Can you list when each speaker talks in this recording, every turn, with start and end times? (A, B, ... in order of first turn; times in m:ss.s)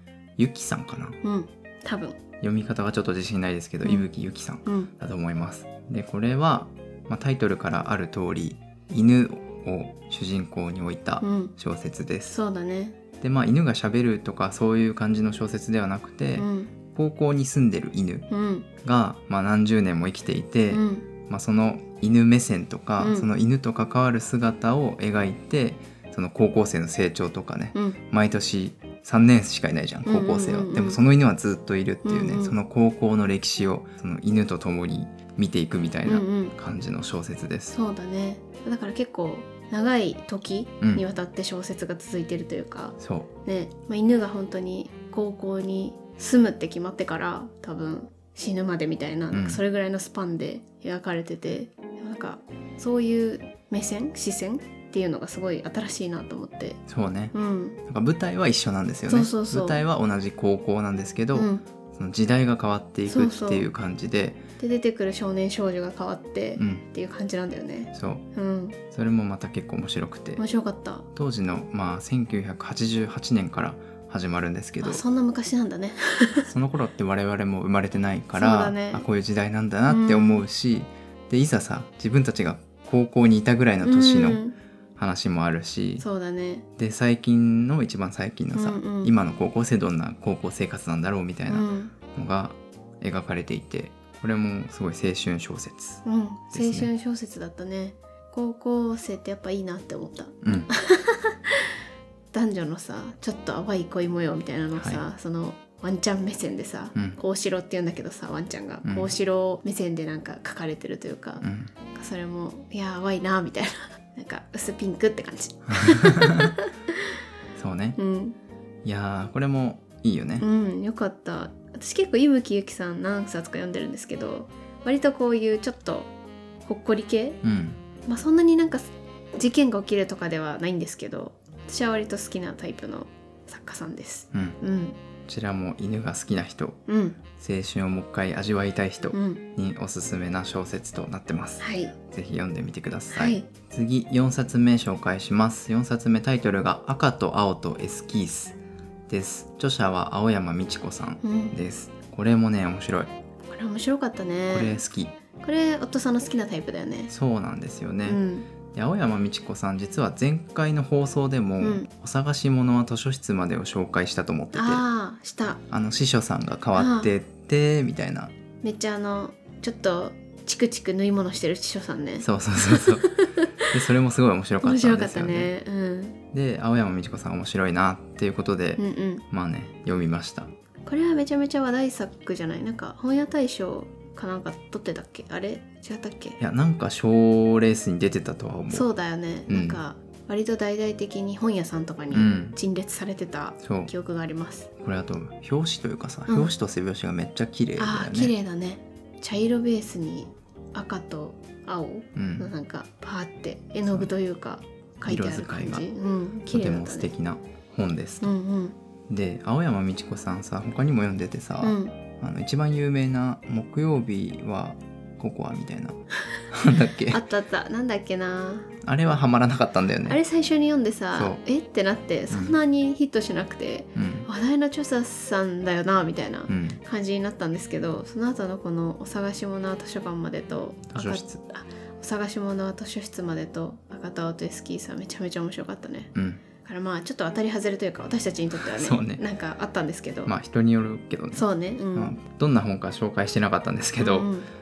0:00.4-0:01.2 A
0:01.2-0:02.2 B
0:02.4-0:12.4 A
0:04.6-0:04.9 B
0:11.2-0:11.5 B
0:12.3-0:13.0 B
0:13.2-0:18.3 A
0:16.4-0:16.7 B
0:18.3-0:18.7 B
0:18.8-0:37.8 A
0:20.7-0:21.1 B
0:23.0-0:23.3 B
0:30.1-0:31.0 B
0:32.0-0:32.6 B
0:36.1-0:36.6 B
0:37.7-0:56.8 B
0:40.8-0:41.1 A
0:43.0-0:43.3 A
0:49.3-0:49.6 A
0:56.9-0:57.3 A
0:57.3-0:57.8 B
0:57.9-1:04.4 A
0:59.1-0:59.8 B
1:01.3-1:01.6 B
1:03.1-1:03.7 B
1:04.6-1:08.8 B
1:06.6-1:06.8 A
1:07.9-1:08.2 A
1:08.9-1:10.4 A
1:10.4-1:11.1 B
1:11.1-1:15.0 A
1:14.8-1:16.5 B
1:16.5-1:24.4 A
1:18.4-1:19.0 B
1:19.9-1:20.4 B
1:23.8-1:24.6 B
1:25.0-1:26.0 A
1:26.0-1:26.6 B
1:26.8-1:36.9 A
1:28.5-1:29.1 B
1:31.5-1:31.9 B
1:36.0-1:41.7 B
1:40.4-1:40.7 A
1:42.3-1:57.0 B
1:44.8-1:45.0 A
1:48.8-1:49.1 A
1:51.4-1:51.7 A
1:55.7-1:56.6 A
1:57.6-1:58.0 A
1:58.0-1:58.4 B
1:58.8-2:00.5 A
2:00.4-2:06.1 B
2:06.6-2:07.4 B
2:07.4-2:07.8 A
2:08.1-2:15.0 B
2:14.3-2:14.6 A
2:15.3-2:16.8 A
2:16.9-2:17.2 B
2:17.4-2:28.6 A
2:19.1-2:19.4 B
2:21.6-2:22.0 B
2:23.1-2:23.5 B
2:29.1-2:33.1 A
2:31.2-2:31.6 B
2:33.5-2:34.8 B
2:34.5-2:35.1 A
2:35.4-2:37.1 B
2:37.1-2:38.2 A
2:38.1-2:38.5 B
2:38.7-2:44.8 A
2:41.6-2:41.9 B
2:44.5-2:45.6 B
2:45.7-2:48.3 A
2:46.8-2:47.1 B
2:48.6-2:53.8 B
2:52.2-2:55.5 A
2:54.6-2:56.2 B
2:56.3-3:00.5 A
2:58.8-2:59.2 B
3:00.9-3:06.4 B
3:06.4-3:08.9 A
3:08.7-3:14.7 B
3:09.5-3:09.8 A
3:12.1-3:12.6 A
3:13.6-3:13.9 A
3:14.8-3:18.3 A
3:17.8-3:27.1 B
3:22.2-3:22.5 A
3:25.0-3:25.9 A
3:26.5-3:28.3 A
3:28.2-3:28.8 B
3:29.1-3:36.0 A
3:31.6-3:32.0 B
3:36.5-3:37.2 A
3:37.1-3:38.7 B
3:38.8-3:40.2 A
3:40.1-4:00.3 B
3:41.1-3:41.4 A
3:42.3-3:42.6 A
3:44.0-3:44.3 A
3:46.5-3:46.8 A
3:50.9-3:51.4 A
3:56.2-3:56.4 A
3:58.6-3:59.2 A
4:00.2-4:04.3 A
4:01.3-4:02.2 B
4:04.0-4:04.5 B